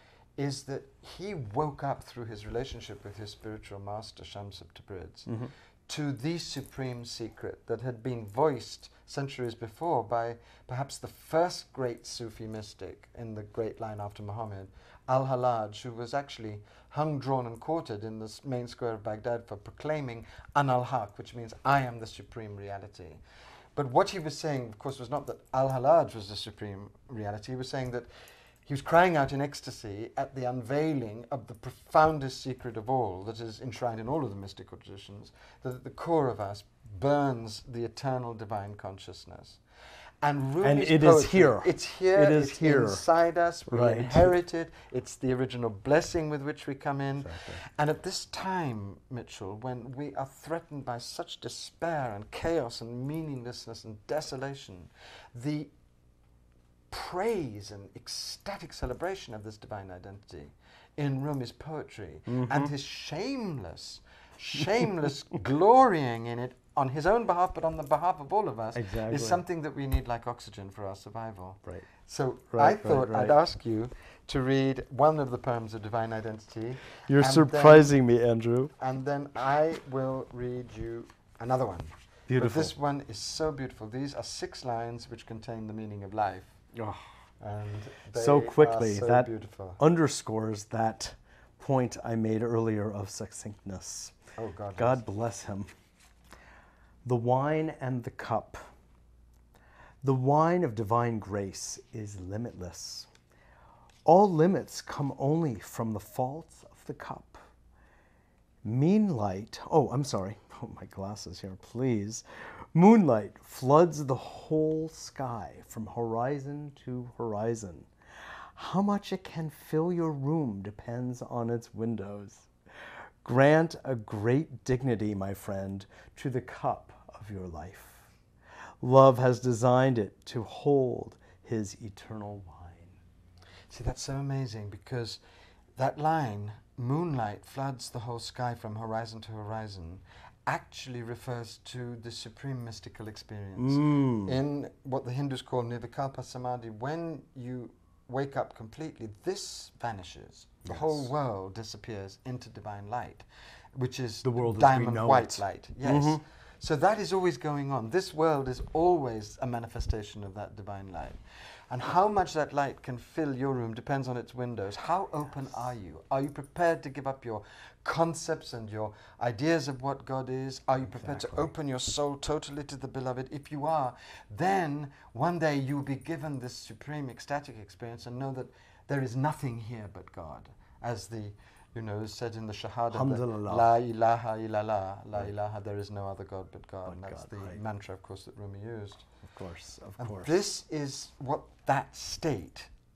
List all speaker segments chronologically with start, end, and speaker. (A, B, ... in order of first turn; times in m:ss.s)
0:00.4-0:23.2 A
0:23.8-0:28.1 A
0:28.6-0:39.6 A
0:40.2-0:55.7 A
0:40.6-0:43.0 B
0:43.7-0:44.4 B
0:47.2-0:47.6 B
0:56.9-1:17.9 A
1:02.3-1:02.7 B
1:08.7-1:09.4 B
1:12.5-1:13.4 B
1:17.0-1:18.7 B
1:18.8-1:26.6 A
1:22.3-1:22.7 B
1:26.7-1:27.0 B
1:27.4-1:29.8 A
1:28.1-1:34.2 B
1:34.4-1:35.0 A
1:34.8-1:35.7 B
1:37.0-1:38.6 B
1:40.0-1:43.1 B
1:44.0-1:47.4 B
1:48.6-1:57.9 B
1:58.5-2:02.5 B
2:03.2-2:08.1 B
2:08.8-2:13.0 B
2:13.7-2:15.2 A
2:15.8-2:41.2 A
2:23.6-2:24.4 B
2:30.6-2:31.1 B
2:34.2-2:36.2 B
2:41.7-3:09.1 A
2:50.9-2:51.5 B
3:02.9-3:03.7 B
3:06.9-3:07.6 B
3:09.2-3:10.4 B
3:10.0-3:12.7 A